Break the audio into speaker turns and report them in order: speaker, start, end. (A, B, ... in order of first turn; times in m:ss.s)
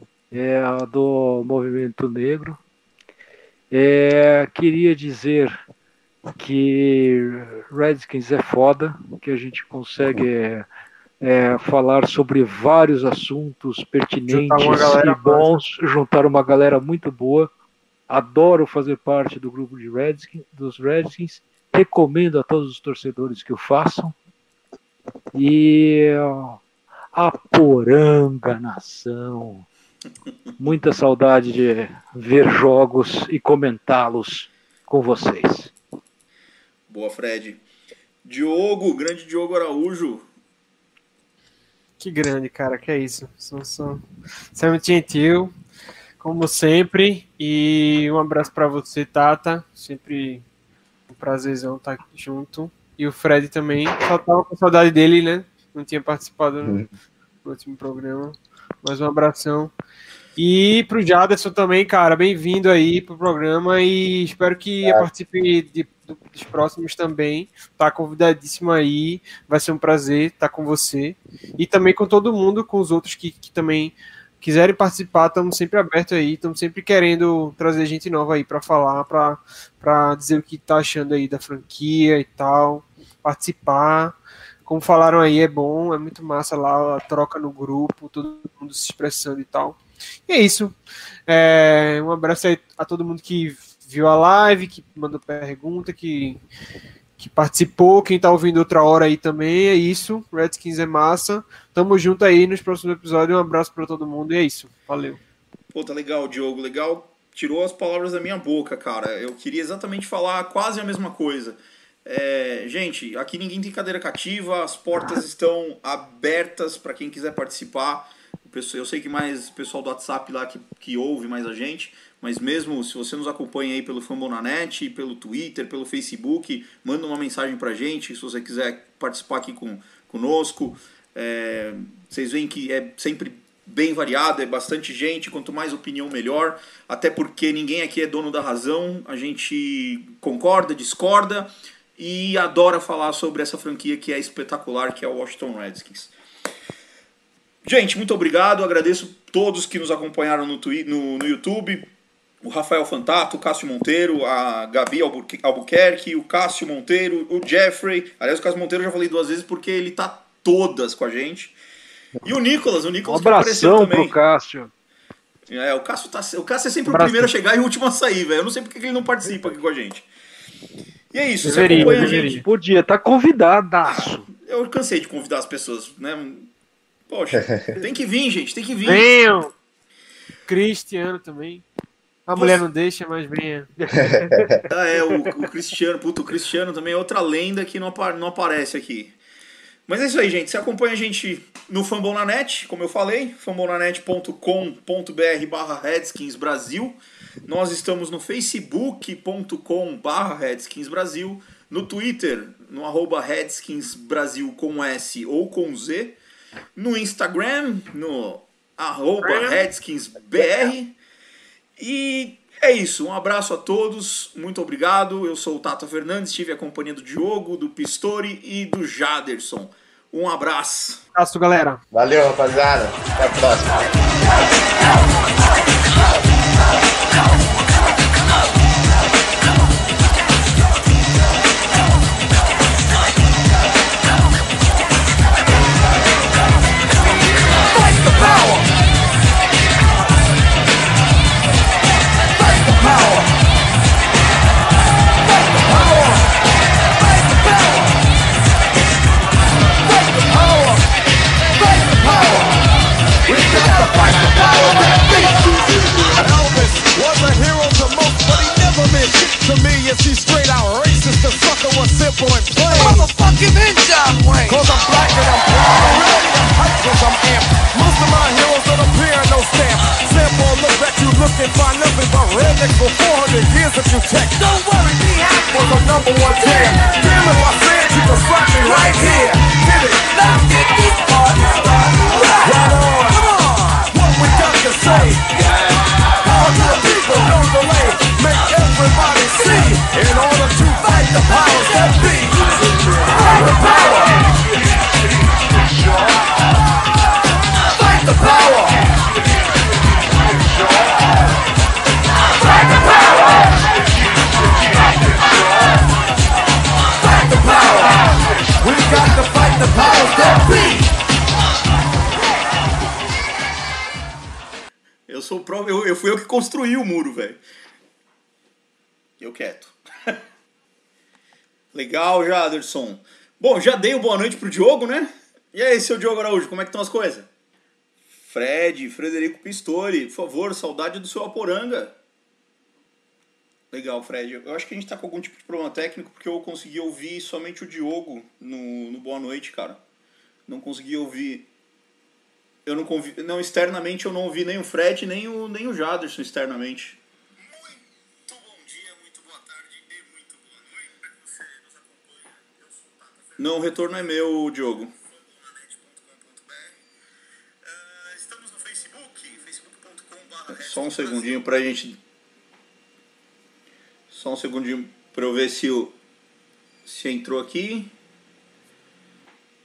0:00.3-0:02.6 A
0:03.7-0:05.6 A
0:06.4-0:10.7 A
0:11.2-0:17.5 A
0:14.3-0:15.6 B
0:18.1-0:24.2 A
0:25.3-0:26.6 A
0:27.2-0:29.7 A
0:30.6-0:35.7 A
0:36.9-0:37.6 C
0:38.2-0:40.2 C
0:42.0-0:45.6 B
0:46.2-0:50.4 B
0:51.1-0:56.8 B
0:56.6-0:56.9 D
0:57.4-0:59.7 B
1:00.4-1:36.4 B
1:04.8-1:05.1 D
1:37.2-1:45.2 B
1:45.7-2:26.1 C
2:27.6-2:31.8 C
2:32.4-2:41.6 C
2:42.2-2:44.2 C
2:43.0-2:44.7 A
2:45.5-2:50.1 C
2:46.9-2:47.3 B
2:51.1-2:52.4 C
2:51.4-2:52.4 B
2:51.8-2:54.3 A
2:53.9-2:56.5 C
2:57.1-2:59.1 C
2:57.4-2:57.6 D
2:58.8-2:59.5 B
3:00.5-3:01.6 B
3:02.3-3:03.7 B
3:02.3-3:02.6 C
3:04.0-3:04.6 D
3:04.7-3:09.2 C
3:09.9-3:26.2 C
3:26.8-3:31.0 C
3:29.2-3:29.7 B
3:31.8-3:41.0 C
3:41.2-3:41.8 B
3:41.9-3:43.8 D
3:57.8-3:58.7 E
4:02.5-4:03.3 E
4:05.6-4:06.2 E
4:10.3-4:10.8 E
4:11.8-4:12.5 E
4:13.3-4:15.4 E
4:13.5-4:16.2 F
4:16.0-4:34.6 E
4:22.7-4:23.2 F
4:34.4-4:37.2 F
4:35.5-4:40.1 E
4:38.6-4:39.2 F
4:40.0-4:43.4 F
4:42.4-4:45.5 E
4:46.2-4:52.6 E
4:51.6-4:52.0 F
4:53.2-4:53.8 F
4:53.2-4:54.1 E
4:57.9-4:58.7 E
5:07.2-5:08.0 E
5:08.6-5:10.8 E
5:15.1-5:17.4 C
5:19.2-5:20.2 C
5:21.7-5:27.3 C
5:28.3-5:31.9 C
5:33.7-5:39.8 C
5:40.5-5:41.5 C
5:42.7-5:50.7 C
5:53.4-5:54.9 C
5:55.5-5:56.7 C
5:57.7-6:02.0 C
6:04.1-6:05.9 C
6:06.9-6:07.9 C